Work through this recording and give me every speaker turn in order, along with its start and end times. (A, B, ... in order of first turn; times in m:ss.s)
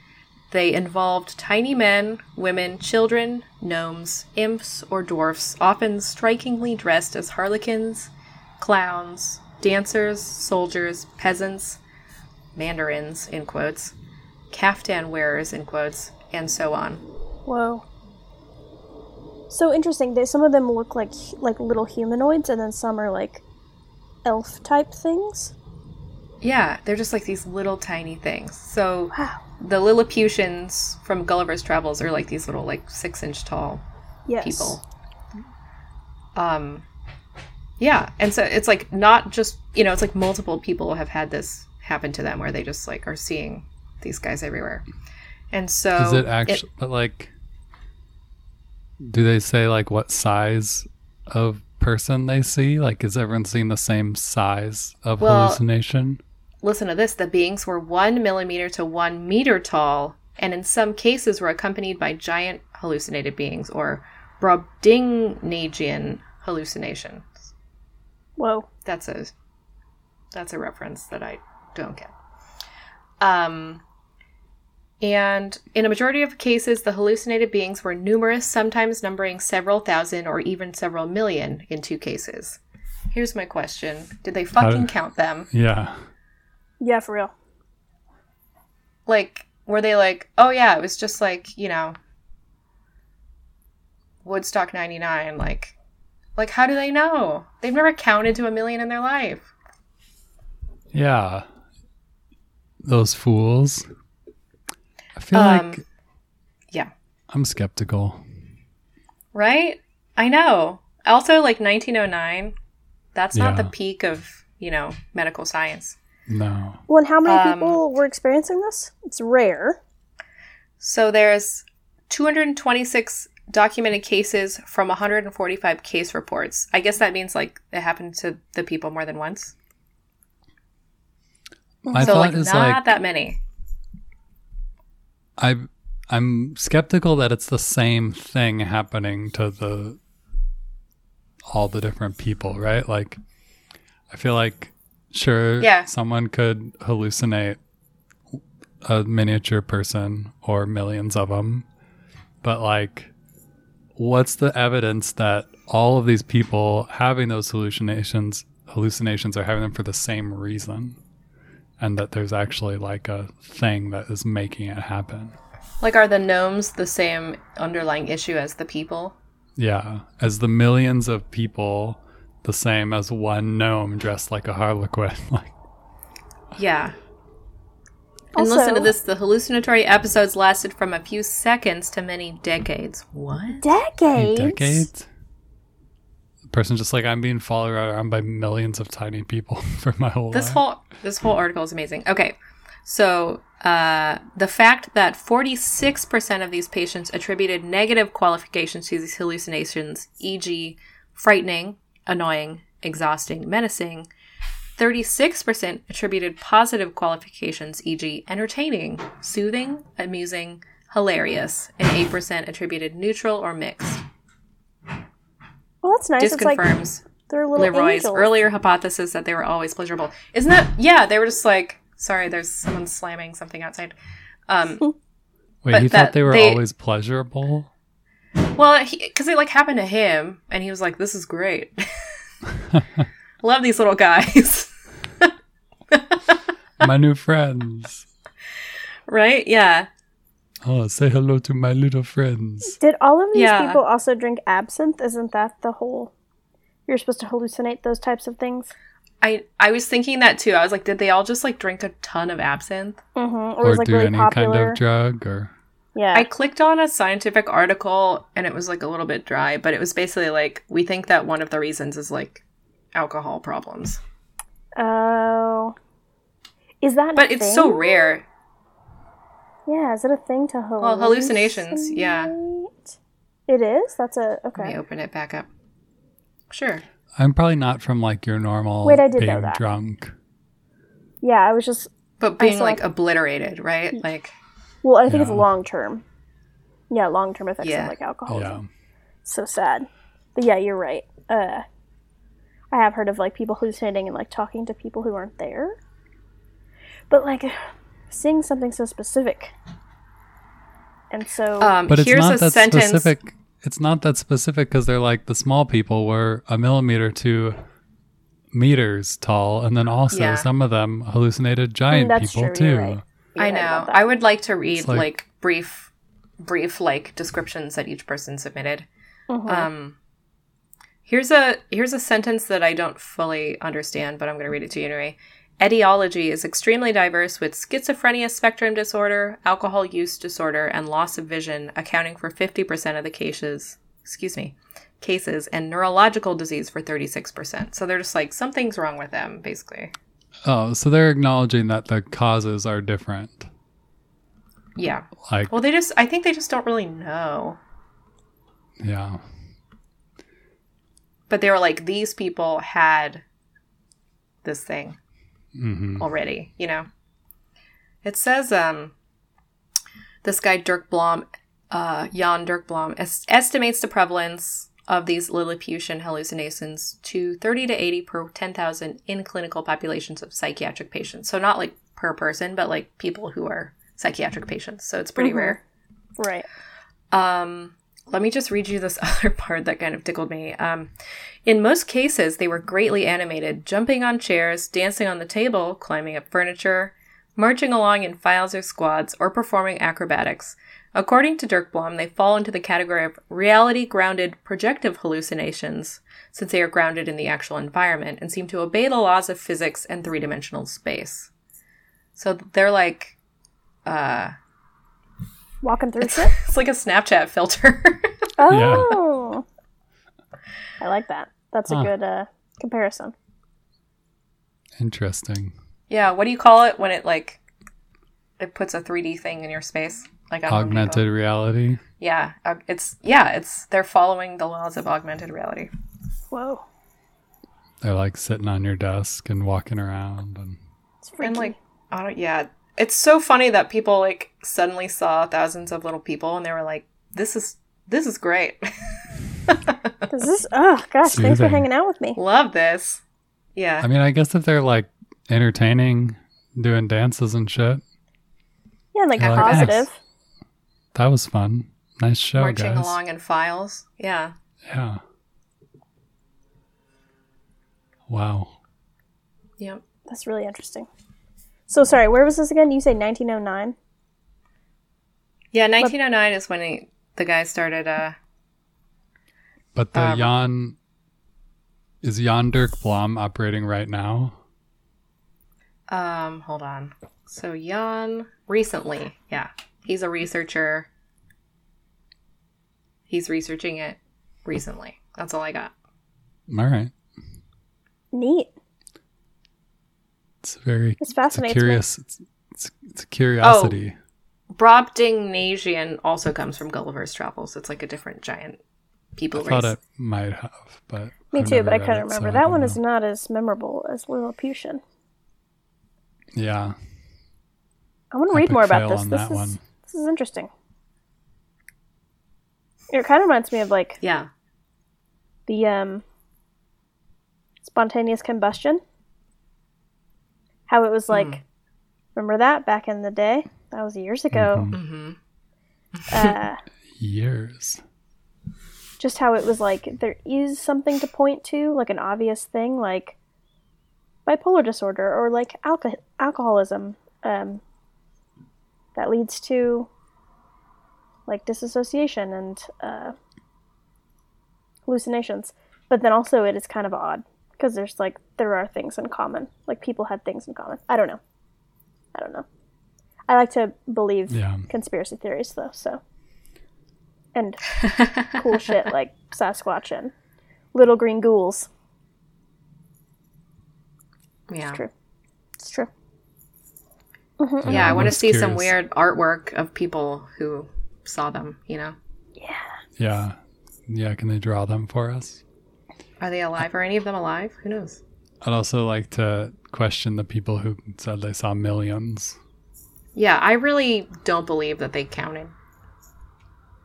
0:00.5-0:11.8 A
0:12.6-0:13.9 A
0:14.5-0:17.0 A
0:17.5-0:17.8 B
0:19.5-0:23.4 B
0:24.2-0:25.5 B
0:26.4-0:33.8 A
0:29.1-0:29.4 B
0:34.3-0:34.8 B
0:34.4-0:34.8 A
0:36.4-0:36.8 A
0:37.8-0:44.9 A
0:45.5-0:46.6 A
0:46.0-0:47.3 C
0:49.0-0:56.2 C
0:55.2-0:55.6 A
0:56.6-1:07.3 A
1:08.4-1:08.7 B
1:08.8-1:09.3 A
1:10.3-1:12.1 A
1:13.2-1:13.8 A
1:15.0-1:22.6 A
1:23.1-1:25.5 A
1:24.6-1:24.9 C
1:25.5-1:26.0 C
1:26.8-1:27.3 B
1:29.1-1:32.0 A
1:34.2-1:35.7 A
1:36.4-1:39.5 A
1:40.9-1:41.5 C
1:42.8-1:43.9 C
1:45.2-1:45.8 C
1:45.3-1:45.8 A
1:47.3-1:48.2 C
1:49.3-1:52.6 A
1:53.2-1:56.0 A
1:53.3-1:53.7 C
1:56.3-1:56.8 C
1:56.9-1:59.8 B
1:57.2-1:57.8 A
2:00.8-2:09.5 A
2:11.8-2:12.3 B
2:11.9-2:12.8 C
2:12.0-2:13.4 A
2:15.4-2:20.0 C
2:21.5-2:23.2 C
2:24.1-2:27.6 C
2:25.6-2:25.9 A
2:28.3-2:31.6 C
2:32.4-2:33.1 C
2:34.0-2:41.0 C
2:41.8-2:45.4 C
2:45.8-2:49.2 A
2:49.6-2:55.5 C
2:56.6-2:57.0 A
2:58.4-2:58.9 B
2:58.4-3:03.7 A
3:03.6-3:04.9 B
3:04.2-3:05.1 C
3:06.5-3:10.6 C
3:10.3-3:24.1 A
3:24.8-3:34.0 A
3:35.8-3:38.3 B
3:36.2-3:37.0 A
3:37.6-3:44.0 A
3:44.5-3:44.9 A
3:45.6-3:47.7 C
3:45.7-3:46.6 A
3:48.4-3:52.0 A
3:52.7-3:53.0 C
3:53.4-3:55.3 A
3:55.9-3:56.9 A
3:56.8-3:58.1 C
3:59.1-3:59.9 A
4:00.6-4:02.8 C
4:02.6-4:06.1 B
4:03.3-4:03.8 A
4:06.9-4:08.7 B
4:09.2-4:13.0 A
4:13.2-4:14.8 B
4:13.6-4:15.5 C
4:16.0-4:16.3 B
4:16.1-4:22.4 A
4:23.0-4:24.0 A
4:24.8-4:25.8 B
4:26.8-4:28.1 B
4:27.2-4:28.2 A
4:29.7-4:32.9 B
4:30.8-4:32.3 A
4:33.5-4:34.8 B
4:34.6-4:35.5 A
4:36.5-4:36.8 A
4:37.2-4:40.1 C
4:38.8-4:39.6 B
4:41.2-4:41.9 B
4:42.2-4:44.3 A
4:42.4-4:42.8 B
4:44.8-4:46.0 B
4:45.1-4:45.5 C
4:46.9-4:48.6 B
4:47.6-4:47.9 A
4:48.3-4:48.7 C
4:49.2-4:51.6 B
4:52.7-4:55.8 B
4:57.1-4:59.5 B
5:01.1-5:01.7 B
5:01.6-5:03.1 A
5:01.9-5:07.6 C
5:08.5-5:13.0 C
5:10.1-5:10.5 A
5:11.9-5:14.1 B
5:13.4-5:18.9 A
5:14.8-5:15.1 C
5:19.3-5:19.7 B
5:19.5-5:20.0 A
5:21.1-5:39.9 A
5:40.4-5:43.5 C
5:44.8-5:47.6 A
5:45.2-5:45.5 C
5:48.8-5:49.2 C
5:51.3-5:53.2 A
5:54.4-5:55.0 A
5:55.6-5:56.1 C
5:56.0-5:56.9 A
5:58.0-5:58.9 A
6:00.2-6:15.6 A
6:15.2-6:15.6 B
6:16.2-6:16.5 B
6:17.1-6:20.9 A
6:21.5-6:41.3 A
6:42.2-6:43.2 A
6:43.9-6:44.3 A
6:45.6-6:46.3 B
6:46.0-6:48.3 A
6:48.4-6:49.4 B
6:48.5-6:49.0 C
6:50.8-6:53.1 B
6:54.8-6:55.5 C
6:55.9-6:57.4 A
6:58.4-7:01.0 A
7:00.5-7:01.8 C
7:02.0-7:05.7 A
7:06.3-7:06.6 B
7:07.8-7:10.6 C
7:11.0-7:11.6 B
7:11.2-7:20.1 A
7:20.1-7:22.2 B
7:21.1-7:21.7 C
7:22.2-7:23.0 A
7:23.6-7:23.9 A
7:23.8-7:27.8 C
7:28.9-7:30.0 B
7:29.2-7:29.8 A
7:29.2-7:29.8 C
7:30.9-7:33.0 C
7:32.4-7:34.3 A
7:34.7-7:35.0 C
7:38.1-7:38.6 C
7:40.1-7:40.9 B
7:41.7-7:43.8 B
7:45.5-7:48.2 A
7:49.8-7:50.8 C
7:49.9-7:50.3 A
7:52.0-7:54.4 C
7:55.9-8:00.9 A
8:03.1-8:05.7 A
8:06.5-8:06.9 C
8:08.1-8:08.5 B
8:10.4-8:14.0 C
8:11.0-8:11.8 B
8:13.4-8:13.8 A
8:14.5-8:18.6 A
8:19.2-8:19.7 A
8:19.4-8:22.8 C
8:21.3-8:24.8 B
8:26.3-8:26.8 C
8:28.1-8:30.5 B
8:28.3-8:29.6 C
8:32.9-8:34.0 B
8:34.0-8:34.3 A
8:35.5-8:36.0 B
8:37.6-8:38.8 B
8:40.7-8:41.4 B
8:41.1-8:41.4 A
8:42.2-8:44.7 B
8:44.3-8:44.8 C
8:44.7-8:45.2 A
8:46.0-8:46.4 A
8:46.1-8:46.6 B
8:47.0-8:47.8 C
8:49.0-8:53.2 B
8:54.3-8:57.6 B
8:59.0-8:59.9 B
9:01.3-9:03.2 B
9:04.9-9:11.2 B
9:12.1-9:12.5 B
9:13.3-9:16.0 B
9:14.3-9:14.7 C
9:17.4-9:20.1 B
9:20.7-9:21.7 B
9:24.5-9:24.8 A
9:25.6-9:25.9 B
9:27.4-9:28.1 B
9:27.6-9:28.8 C
9:27.7-9:32.0 A
9:32.4-9:32.7 B
9:33.0-9:33.4 C
9:33.9-9:35.4 C
9:36.2-9:38.0 A
9:38.4-9:42.4 C
9:43.2-9:45.5 A